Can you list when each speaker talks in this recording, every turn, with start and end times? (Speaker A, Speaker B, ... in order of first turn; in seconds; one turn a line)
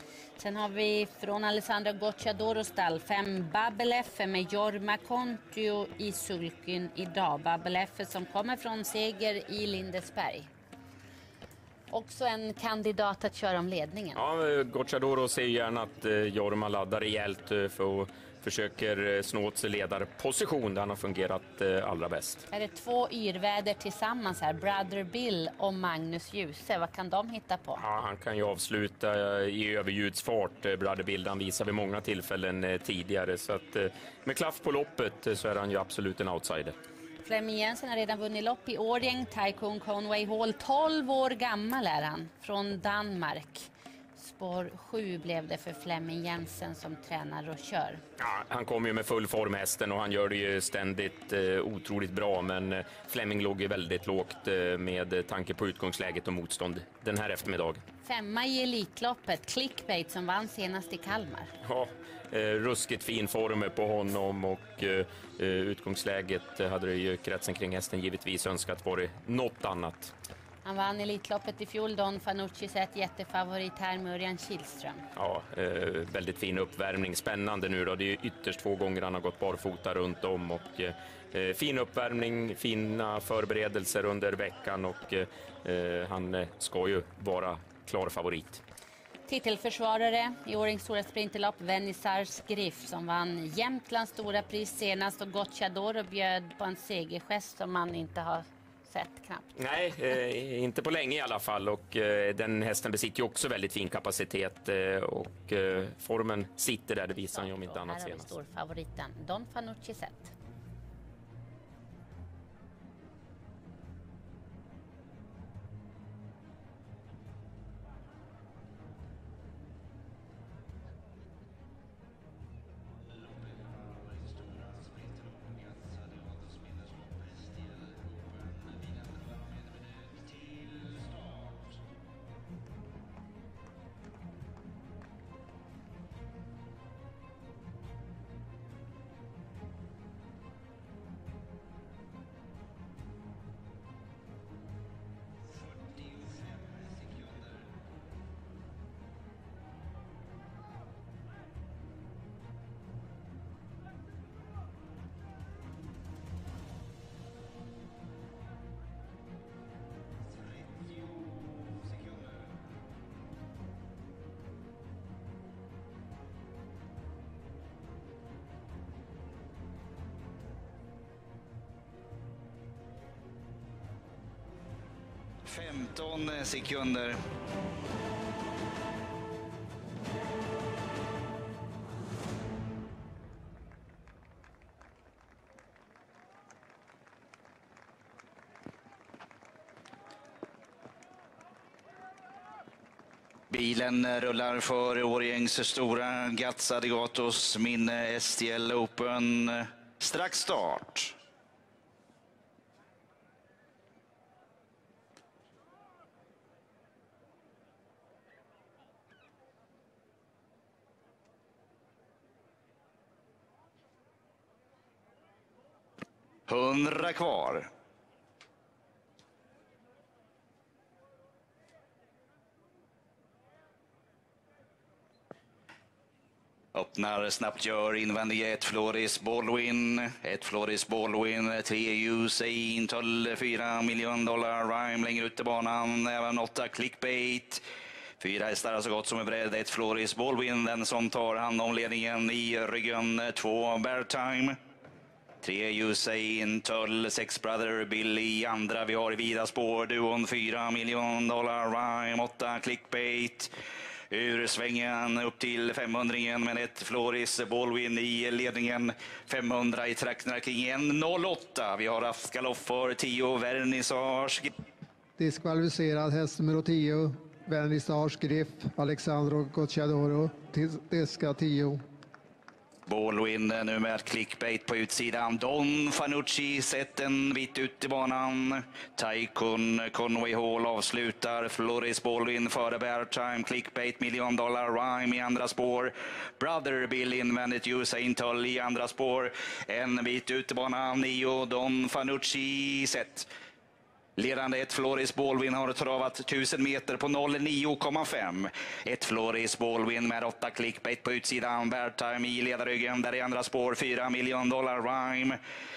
Speaker A: 0.4-10.5
Speaker A: 11.9-14.2
Speaker B: 14.2-22.4
Speaker A: 22.5-27.8
Speaker B: 27.8-36.7
Speaker A: 37.2-48.0
Speaker B: 48.2-57.8
Speaker A: 58.0-61.5
Speaker B: 61.6-70.1
Speaker A: 70.6-75.0
Speaker B: 75.2-88.6
Speaker A: 89.3-99.5
Speaker B: 99.6-108.4
Speaker A: 107.3-110.3
Speaker C: 175.4-177.2
Speaker C: 193.5-201.2
Speaker C: 216.5-217.7
Speaker C: 226.7-237.6
Speaker C: 238.2-244.6
Speaker C: 245.4-253.5
Speaker C: 254.1-264.5
Speaker D: 265.2-271.8
Speaker C: 272.9-293.3
Speaker C: 294.2-305.4